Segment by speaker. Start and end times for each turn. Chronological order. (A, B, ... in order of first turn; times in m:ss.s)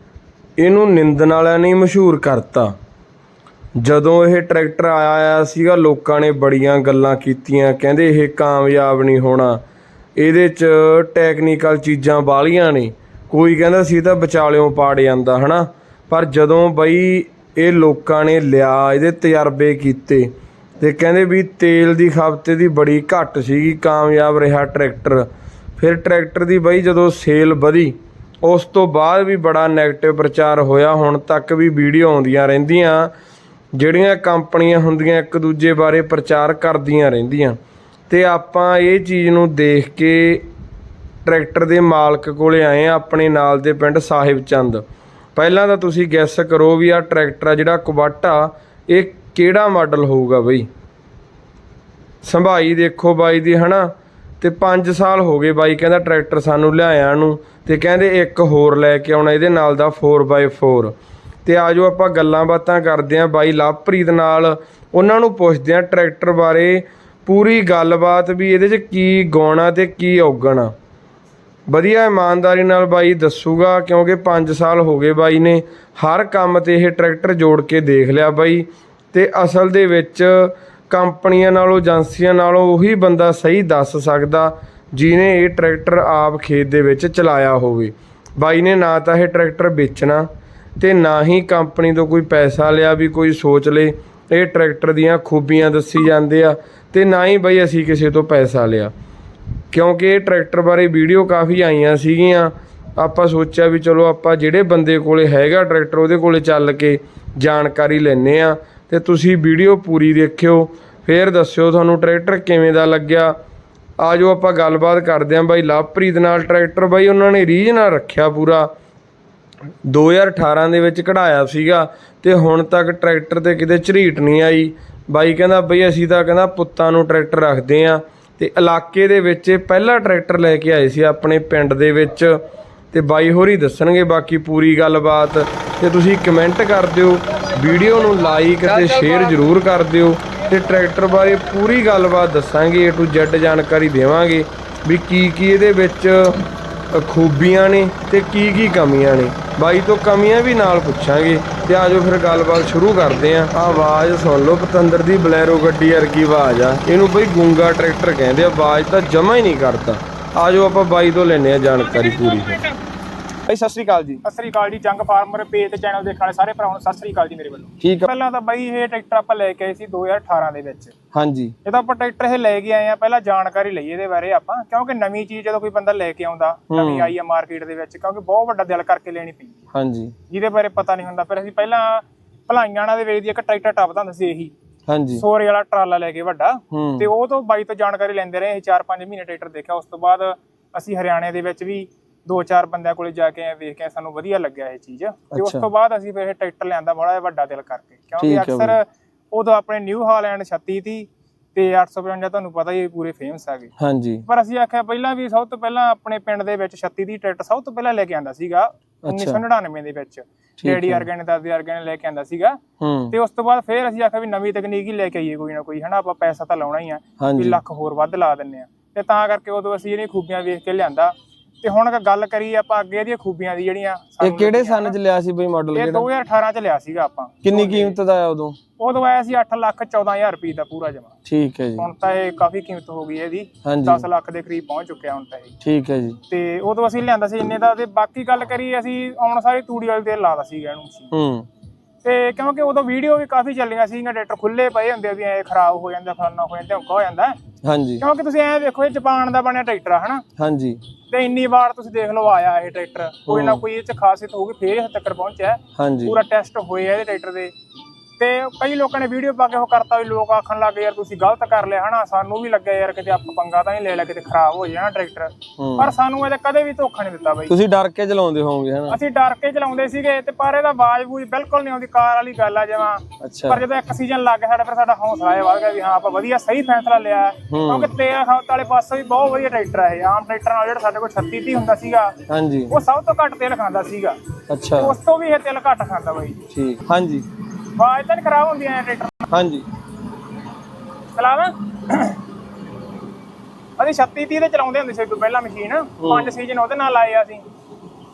0:00.6-0:02.7 A
0:03.8-0:09.6 A
0:10.2-0:20.3 A
0:20.8-0:25.3 A
0:25.8-0:33.1 A
0:33.8-0:37.6 A
0:38.1-0:40.5 A
0:41.2-0:44.8 A
0:45.4-0:50.7 A
0:52.2-0:53.9 A
0:54.4-1:00.9 A
1:01.4-1:10.7 A
1:11.7-1:30.3 A
1:30.8-1:38.9 A
1:39.7-1:53.3 A
1:54.0-1:58.7 A
1:59.8-2:12.4 A
2:12.9-2:42.6 A
2:41.8-2:42.8 B
2:43.5-2:44.2 A
2:44.2-2:50.9 B
2:47.8-2:48.1 A
2:51.1-2:51.6 A
2:51.6-2:59.6 B
2:56.7-2:57.1 A
2:59.7-3:00.1 A
3:00.3-3:04.5 B
3:04.9-3:05.2 A
3:05.2-3:23.7 B
3:06.7-3:07.1 A
3:15.3-3:15.6 A
3:18.2-3:18.8 A
3:23.8-3:24.2 A
3:24.3-3:32.6 B
3:29.0-3:29.4 A
3:30.6-3:31.1 A
3:32.8-3:33.1 A
3:33.1-3:45.0 B
3:37.2-3:37.6 A
3:44.2-3:46.1 A
3:45.8-3:48.0 B
3:47.4-3:48.6 A
3:48.8-3:51.1 B
3:51.3-3:51.9 A
3:51.8-3:55.6 B
3:53.6-3:54.0 A
3:55.6-3:56.2 A
3:56.3-4:01.1 B
4:01.1-4:01.5 A
4:02.0-4:07.4 B
4:07.6-4:08.0 A
4:08.0-4:10.2 B
4:10.4-4:10.8 A
4:11.1-4:17.5 B
4:13.3-4:13.6 A
4:15.8-4:16.2 A
4:18.2-4:27.5 B
4:25.6-4:25.9 A
4:27.5-4:29.0 A
4:28.9-4:42.2 B
4:33.2-4:33.6 A
4:37.5-4:37.9 A
4:42.3-4:42.8 A
4:42.7-4:44.2 B
4:44.5-4:45.0 A
4:44.8-4:46.4 B
4:46.5-4:47.3 A
4:47.8-4:49.3 B
4:49.3-4:49.7 A
4:51.2-4:52.2 B
4:53.8-4:57.4 B
4:56.0-4:56.3 A